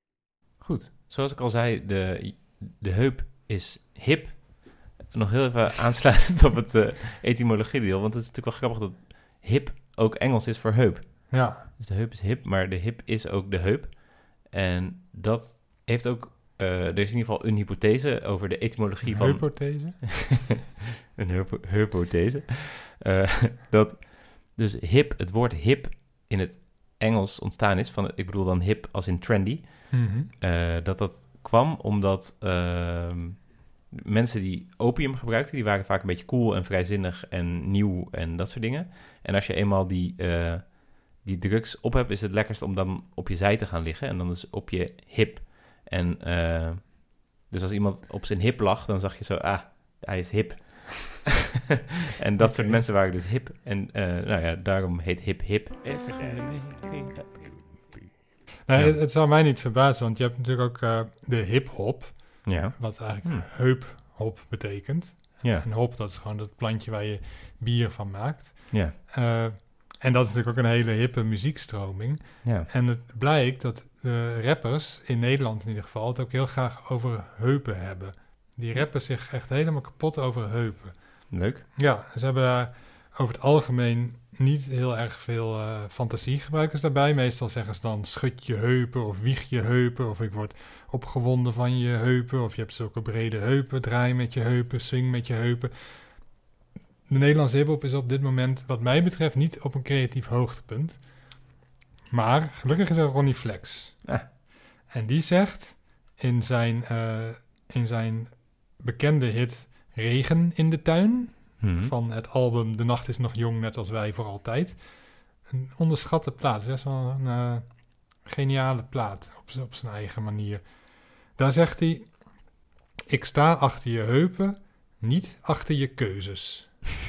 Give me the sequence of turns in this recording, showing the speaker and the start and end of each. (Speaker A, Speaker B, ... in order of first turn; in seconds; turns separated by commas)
Speaker A: 0.6-20.5, Speaker B: 11.3-11.7, Speaker B: 19.0-20.4, Speaker A: 21.1-51.4, Speaker B: 29.9-30.3, Speaker A: 52.2-57.4, Speaker B: 52.4-52.8, Speaker B: 58.7-96.4, Speaker A: 58.7-59.0, Speaker A: 62.4-63.5, Speaker A: 68.7-69.0, Speaker A: 72.4-72.7, Speaker A: 81.3-81.6, Speaker B: 97.1-101.4, Speaker B: 102.1-104.3, Speaker B: 104.9-122.6, Speaker A: 111.6-111.9, Speaker B: 123.1-126.8